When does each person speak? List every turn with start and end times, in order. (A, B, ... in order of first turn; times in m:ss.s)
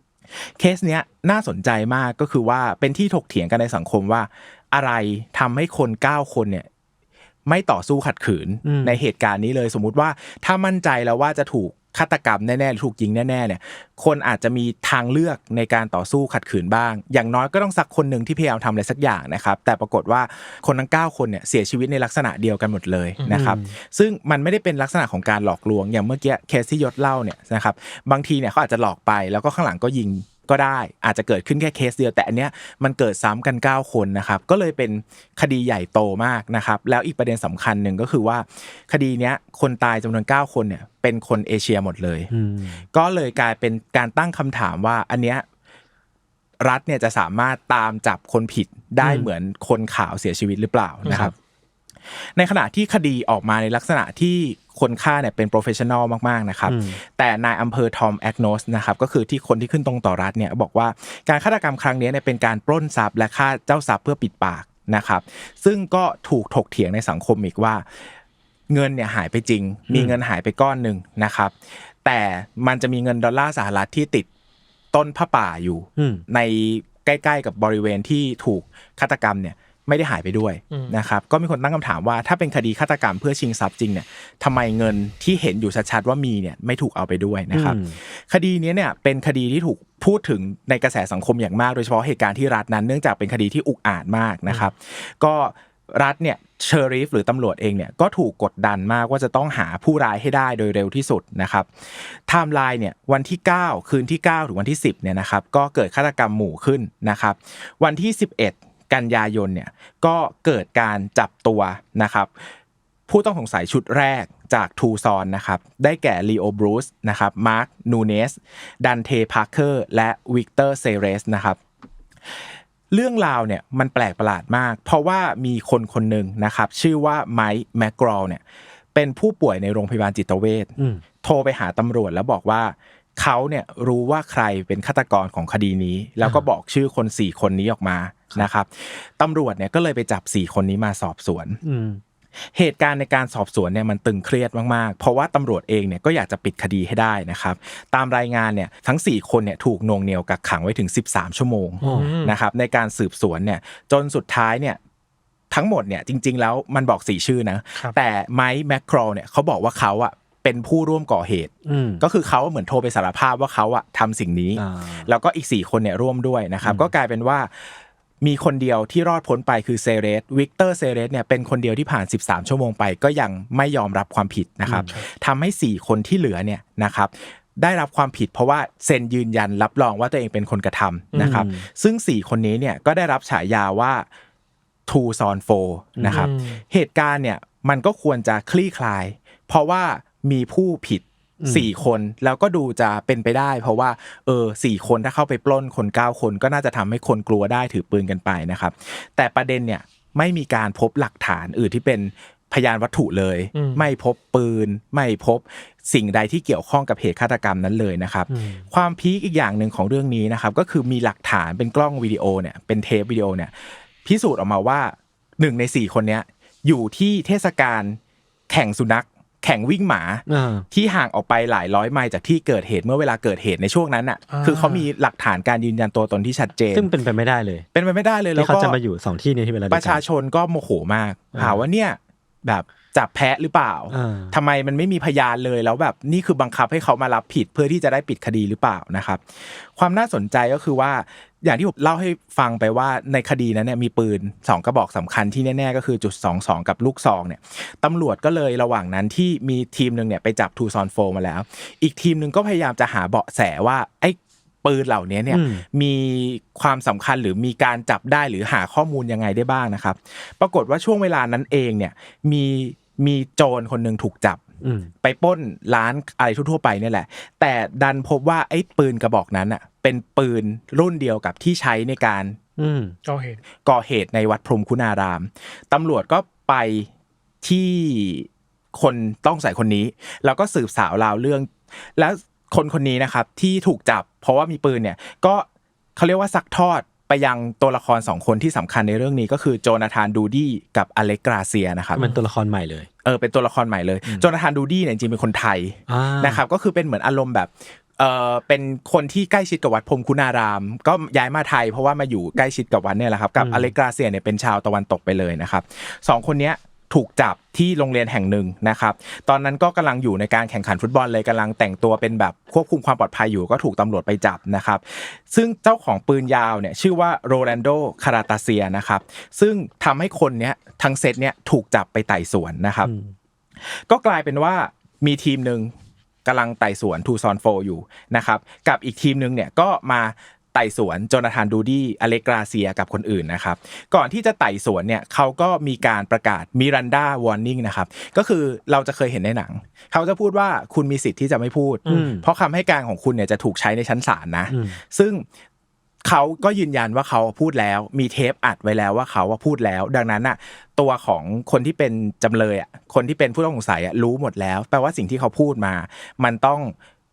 0:00.3-0:06.7 A
0:07.5-0:42.3 A
0:08.6-0:09.0 B
0:23.3-0:23.7 B
0:42.3-0:42.8 B
0:42.9-0:45.4 A
0:46.6-0:51.3 A
0:49.0-0:49.3 B
0:51.0-0:51.3 C
0:51.1-0:51.3 B
0:52.1-1:08.1 A
0:56.7-0:57.0 B
1:08.7-1:14.3 A
1:09.9-1:10.2 B
1:14.9-1:52.4 A
1:16.0-1:16.2 B
1:27.5-1:28.0 B
1:53.1-2:01.6 A
2:02.3-2:08.4 A
2:08.9-2:21.6 A
2:10.8-2:11.0 B
2:21.6-2:22.0 B
2:22.5-2:34.8 A
2:31.8-2:32.4 C
2:31.8-2:32.1 B
2:35.5-3:04.1 A
2:41.6-2:42.0 B
2:44.6-2:45.1 B
2:46.6-2:46.9 B
2:54.6-2:54.9 B
3:01.1-3:01.4 C
3:01.2-3:01.6 B
3:04.9-3:38.0 A
3:06.0-3:06.2 B
3:06.1-3:06.6 C
3:11.4-3:11.7 B
3:23.5-3:23.8 C
3:28.3-3:28.6 B
3:38.5-3:46.9 A
3:40.3-3:40.6 B
3:44.3-3:44.9 C
3:46.7-3:47.6 B
3:47.7-3:48.8 A
3:48.3-3:50.0 B
3:49.7-4:24.4 A
3:51.3-3:51.6 B
3:53.9-3:54.4 B
4:15.3-4:15.6 B
4:24.6-4:24.9 B
4:25.0-4:32.4 A
4:32.6-4:32.9 B
4:33.0-4:33.4 C
4:33.6-4:36.9 A
4:37.4-4:52.0 A
4:52.0-4:52.9 B
4:53.0-5:22.9 A
4:55.9-4:56.4 B
5:03.4-5:03.7 B
5:22.8-5:23.1 B
5:23.6-5:25.7 A
5:26.2-5:45.2 A
5:41.9-5:42.2 B
5:44.5-5:44.8 B
5:46.0-5:56.7 A